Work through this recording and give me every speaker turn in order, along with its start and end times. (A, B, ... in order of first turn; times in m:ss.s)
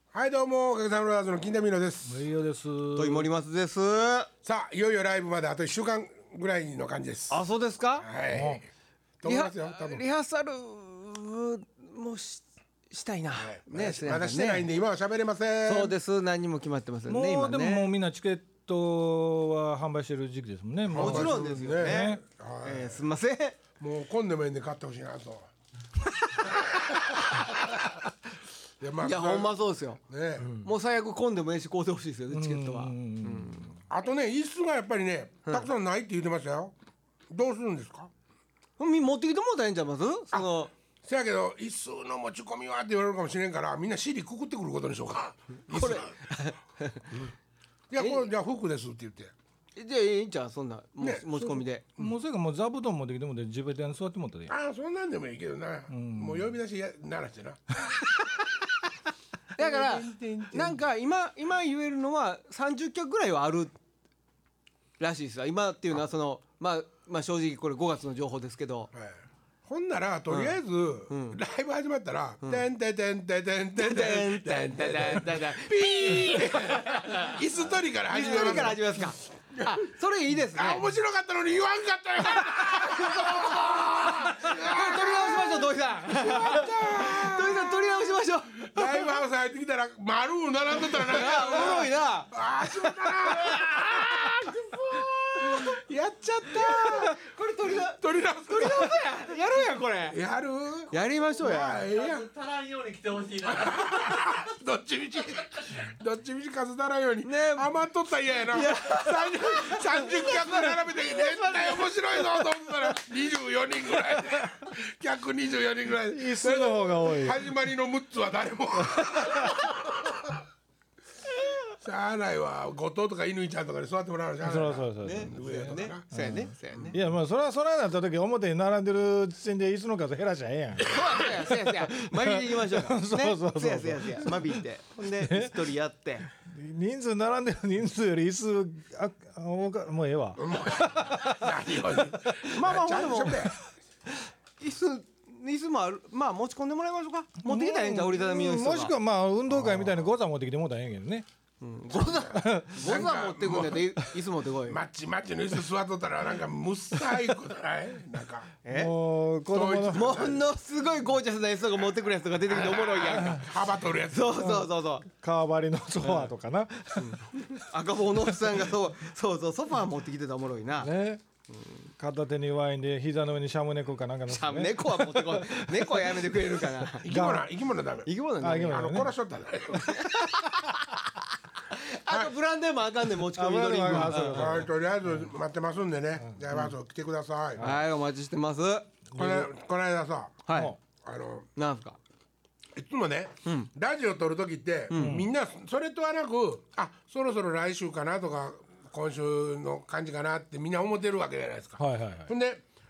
0:00.1-0:02.2 A
0:02.1-0:03.3 B
0:03.0-0:04.3 C
0:04.4-0:07.4 A
0:07.3-0:08.1 C
0:08.0-0:08.7 A
0:08.3-0:08.6 B
0:09.2-0:10.0 A
0:09.2-0:14.7 C
0:13.4-0:16.0 A
0:15.6-0:17.9 C
0:17.1-0:22.2 B
0:20.9-0:23.0 A
0:20.9-0:23.6 C
0:23.8-0:25.5 A
0:27.1-0:27.4 A
0:28.8-0:29.6 A
0:29.0-0:30.0 C
0:30.1-0:30.5 A
0:30.4-0:30.7 B
0:30.6-0:33.8 C
0:32.3-0:33.7 B
0:33.9-0:36.7 A
0:37.3-0:38.1 A
0:38.8-0:40.7 C
0:41.0-0:46.2 A
0:45.7-0:47.1 C
0:47.9-0:49.3 A
0:49.8-0:51.8 C
0:51.0-0:52.1 A
0:52.0-0:54.5 B
0:54.5-0:57.8 A
0:55.9-0:56.5 B
0:59.6-1:00.8 A
0:59.6-1:03.7 C
1:05.0-1:08.9 C
1:08.9-1:19.8 A
1:10.3-1:10.6 C
1:11.1-1:11.4 C
1:13.8-1:17.4 C
1:18.1-1:20.9 C
1:20.5-1:34.4 A
1:22.5-1:29.2 C
1:30.7-1:35.8 C
1:35.4-1:39.0 A
1:36.5-1:40.2 C
1:40.1-1:42.3 A
1:40.9-1:41.9 C
1:41.9-1:44.4 D
1:43.5-2:00.4 A
1:47.2-1:47.7 C
1:48.5-1:52.4 C
1:56.1-1:57.4 B
2:01.8-2:06.1 A
2:04.4-2:05.4 B
2:05.0-2:07.0 C
2:06.1-2:15.7 B
2:10.8-2:16.3 C
2:16.3-2:21.4 B
2:20.4-2:23.6 A
2:22.0-2:22.3 B
2:22.5-2:23.5 C
2:24.6-2:28.9 C
2:27.4-2:31.3 B
2:29.5-2:30.0 A
2:31.6-2:34.8 C
2:32.3-2:32.9 B
2:32.7-2:34.0 A
2:34.7-2:38.5 A
2:38.6-2:38.9 C
2:38.7-2:40.3 B
2:39.5-2:40.4 A
2:39.9-2:43.5 C
2:42.5-2:44.6 A
2:44.1-2:45.1 C
2:44.4-2:47.6 B
2:47.0-2:50.9 C
2:48.3-2:48.6 B
2:50.8-2:51.2 B
2:51.5-2:51.8 C
2:52.0-2:56.4 B
2:54.3-2:57.1 C
2:57.0-3:00.2 A
2:57.0-2:57.5 B
2:58.1-2:58.9 C
2:58.4-2:59.1 B
2:59.7-3:00.8 C
3:01.7-3:04.7 C
3:03.3-3:05.3 B
3:03.9-3:07.7 A
3:07.6-3:07.8 B
3:07.6-3:09.5 C
3:09.2-3:10.4 A
3:10.5-3:10.7 C
3:10.5-3:10.8 B
3:11.0-3:11.5 A
3:11.6-3:12.0 C
3:12.8-3:22.6 A
3:14.9-3:15.2 C
3:15.0-3:15.3 B
3:21.8-3:22.3 B